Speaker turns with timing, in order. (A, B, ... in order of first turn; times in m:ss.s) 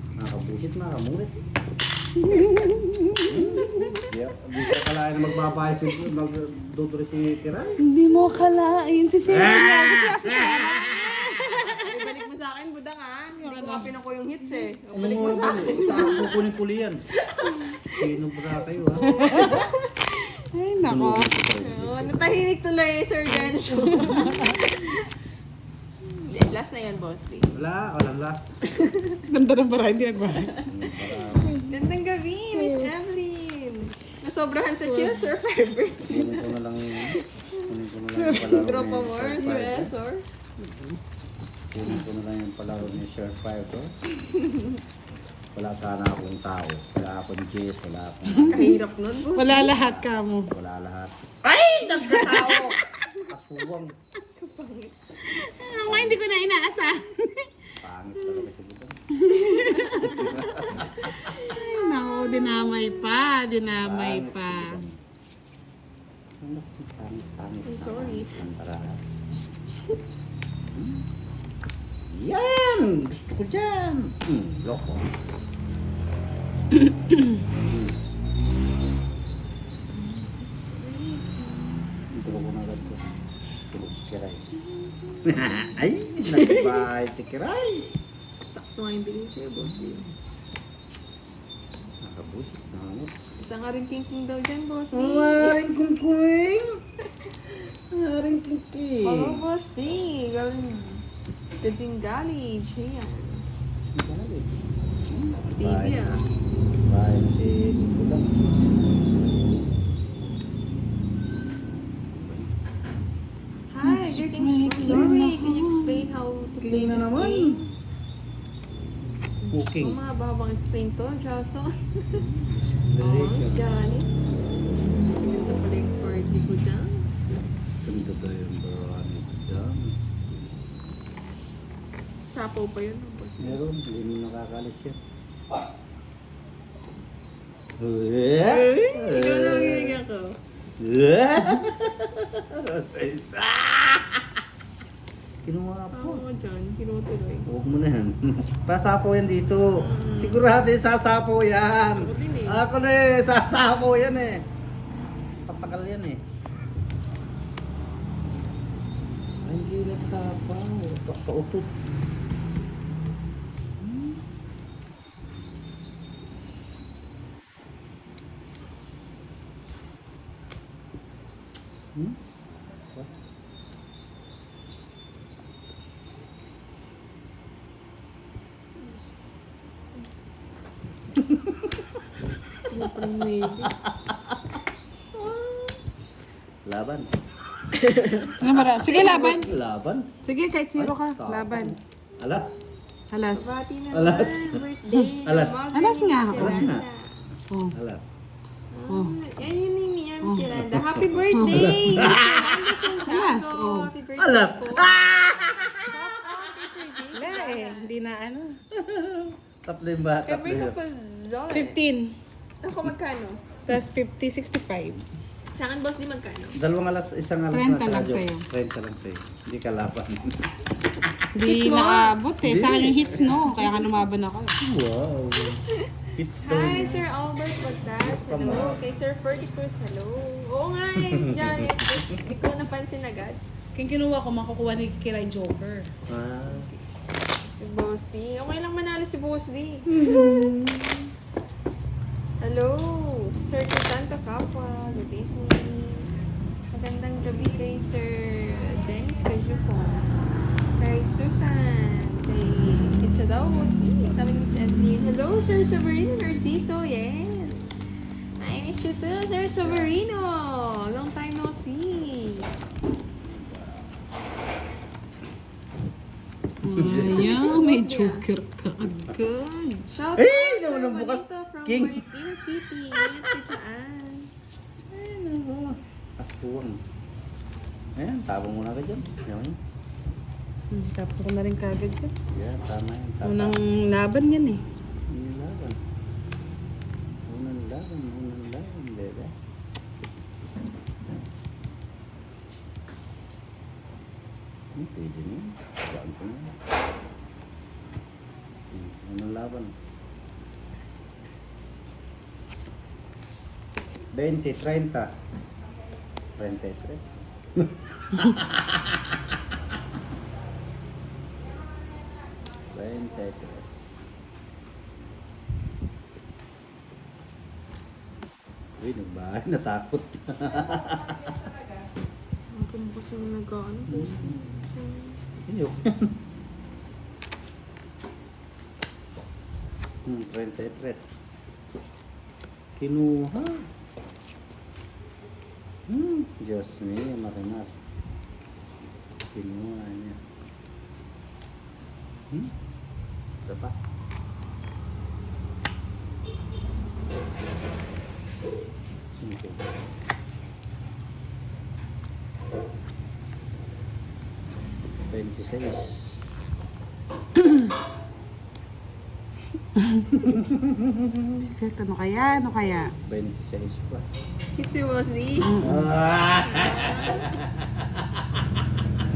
0:00.2-0:01.4 A
0:02.1-0:04.0 B
0:03.2-0:07.8 A
0:03.6-0:04.1 C
0:07.8-0:12.1 B
0:09.2-0:11.7 A
0:11.8-0:16.4 C
0:13.4-0:13.9 B
0:14.9-0:17.0 A
0:17.2-0:20.4 C
0:17.9-0:19.5 A
0:19.0-0:19.7 B
0:20.5-0:21.3 B
0:20.8-0:22.4 A
0:21.6-0:25.1 C
0:23.4-0:24.6 B
0:26.0-0:27.5 C
0:27.5-0:28.5 A
0:28.6-0:29.2 C
0:29.3-0:30.7 B
0:30.6-0:31.6 A
0:31.4-0:31.8 B
0:31.6-0:37.7 C
0:32.5-0:32.9 B
0:34.8-0:35.3 B
0:36.0-0:39.9 A
0:38.2-0:38.6 B
0:38.3-0:40.2 C
0:40.6-0:41.0 B
0:41.7-0:43.9 A
0:44.2-0:44.8 C
0:45.5-0:48.8 A
0:48.3-0:48.7 B
0:48.5-0:49.7 C
0:49.3-0:50.5 B
0:49.6-0:53.9 A
0:51.8-0:52.8 B
0:52.1-0:53.3 C
0:54.3-0:55.0 C
0:55.2-0:57.5 B
0:55.8-0:56.2 A
0:57.8-0:59.0 A
0:59.1-1:00.3 B
0:59.3-1:03.0 C
0:59.9-1:01.2 A
1:01.3-1:04.8 B
1:03.8-1:05.0 A
1:06.4-1:09.0 A
1:07.6-1:08.4 C
1:10.7-1:11.0 A
1:12.1-1:15.1 A
1:16.9-1:17.3 B
1:17.5-1:18.0 A
1:19.9-1:21.9 C
1:22.1-1:23.1 A
1:23.7-1:24.5 A
1:24.4-1:26.8 C
1:25.2-1:27.9 A
1:28.5-1:30.0 C
1:29.7-1:30.1 A
1:32.0-1:33.1 A
1:33.4-1:35.6 C
1:34.9-1:36.8 A
1:37.9-1:39.4 A
1:39.0-1:41.0 C
1:41.6-1:43.4 C
1:43.9-1:44.5 A
1:45.1-1:46.0 A
1:45.5-1:46.2 C
1:46.8-1:48.5 A
1:52.1-1:52.5 A
1:53.7-1:57.7 C
1:53.8-1:56.1 B
1:54.9-1:55.2 A
1:56.6-1:57.7 A
1:59.4-2:02.2 C
1:59.5-2:00.0 A
2:02.1-2:03.6 A
2:03.0-2:04.1 C
2:04.7-2:07.1 C
2:07.8-2:10.0 A
2:12.3-2:13.6 C
2:13.4-2:15.0 A
2:17.8-2:20.0 A
2:18.4-2:20.4 C
2:20.8-2:24.4 A
2:25.4-2:26.2 A
2:25.9-2:27.5 C
2:27.5-2:34.4 A
2:29.8-2:30.4 C
2:31.9-2:32.6 C
2:35.5-2:36.2 A
2:39.4-2:41.8 A
2:43.8-2:44.2 A
2:51.9-2:53.1 A
2:58.8-2:59.1 C
3:01.1-3:01.9 A
3:02.7-3:03.7 C
3:03.8-3:04.5 A
3:06.6-3:07.1 A
3:07.7-3:09.5 C
3:08.4-3:09.5 B
3:09.0-3:10.1 A
3:10.2-3:11.8 B
3:10.8-3:12.6 A
3:13.1-3:13.6 B
3:13.3-3:17.2 C
3:13.9-3:14.6 A
3:15.2-3:15.7 A
3:15.7-3:16.7 B
3:16.3-3:16.8 A
3:17.7-3:18.0 A
3:18.7-3:24.9 C
3:18.9-3:19.2 B
3:20.5-3:22.8 A
3:21.3-3:21.8 B
3:23.0-3:23.9 B
3:24.2-3:26.4 A
3:25.9-3:27.9 C
3:27.1-3:28.6 B
3:28.7-3:30.8 A
3:30.2-3:31.8 C
3:31.5-3:32.1 B
3:32.6-3:33.6 C
3:33.7-3:35.0 B
3:35.5-3:36.6 C
3:36.6-3:41.3 A
3:37.5-3:38.4 B
3:41.3-3:44.6 B
3:41.4-3:42.1 C
3:42.4-3:43.8 A
3:43.0-3:43.7 C
3:44.6-3:45.6 A
3:45.7-3:53.4 C
3:46.2-3:47.1 A
3:48.0-3:48.8 A
3:51.0-3:52.1 A
3:53.7-3:55.9 B
3:56.1-3:56.7 A
3:56.3-3:56.8 C
3:57.4-4:00.5 C
3:59.9-4:01.0 A
4:02.4-4:06.1 C
4:06.7-4:17.7 C
4:18.4-4:22.5 C
4:19.6-4:20.0 A
4:26.6-4:29.8 B
4:26.8-4:27.6 A
4:26.8-4:28.2 C
4:29.9-4:34.3 C
4:30.2-4:32.0 A
4:34.9-4:36.8 A
4:38.0-4:39.6 A
4:40.7-4:42.1 B
4:42.3-4:43.6 A
4:43.2-4:44.6 B
4:45.1-4:45.8 A
4:47.3-4:49.3 A
4:54.7-4:56.6 A
4:58.7-4:59.8 A
5:04.1-5:05.1 A
5:06.4-5:09.4 A
5:12.6-5:14.0 A
5:18.8-5:21.4 A
5:22.5-5:25.2 C
5:23.9-5:24.4 A
5:25.4-5:26.2 A
5:30.0-5:31.2 A
5:32.8-5:33.7 A
5:35.9-5:37.7 A
5:39.3-5:40.2 A
5:43.4-5:43.8 A
5:49.2-5:49.7 A
5:55.1-5:56.2 A
5:59.8-6:00.1 B
6:00.2-6:01.3 A
6:01.3-6:02.9 B
6:03.0-6:04.0 A
6:04.6-6:05.6 C
6:05.4-6:05.9 B
6:05.6-6:08.6 A
6:06.4-6:07.4 C